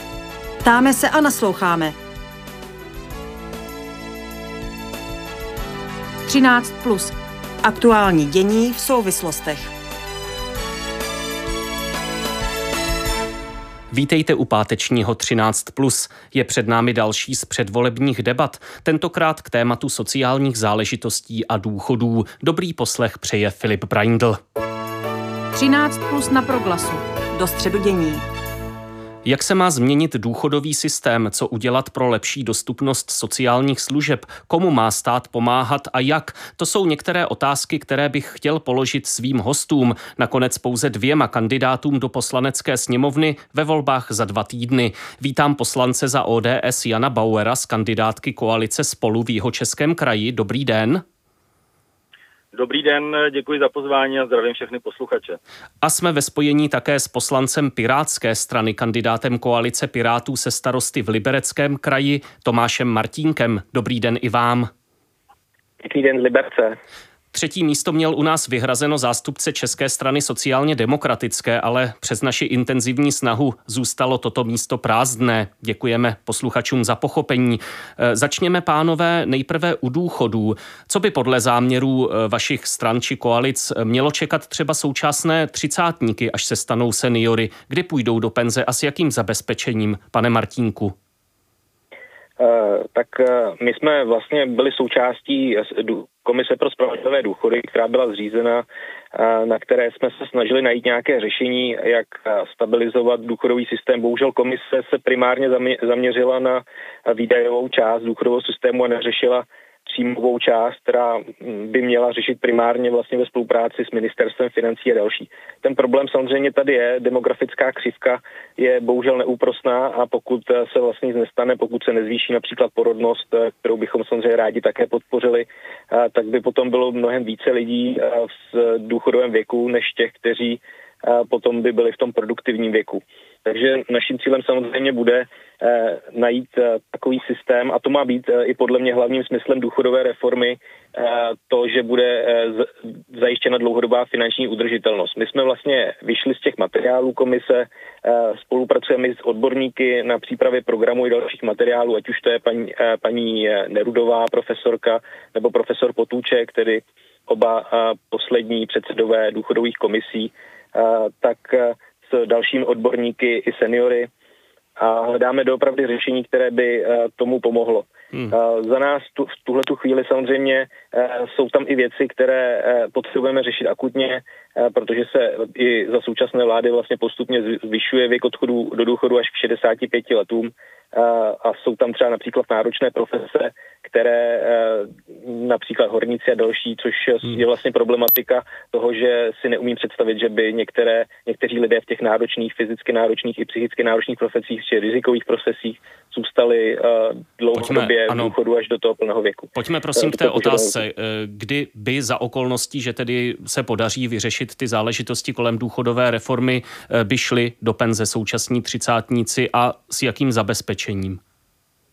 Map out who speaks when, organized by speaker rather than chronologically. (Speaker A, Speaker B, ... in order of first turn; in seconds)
Speaker A: 0.6-2.0, 7.6-9.7, 27.3-28.2
Speaker B: 6.3-7.2, 25.5-27.1
Speaker C: 13.9-24.4, 29.2-51.0, 55.8-64.7, 67.3-91.0, 197.6-198.3, 199.6-211.2
Speaker D: 52.5-55.4
Speaker E: 65.8-66.8, 92.4-164.1, 164.8-200.8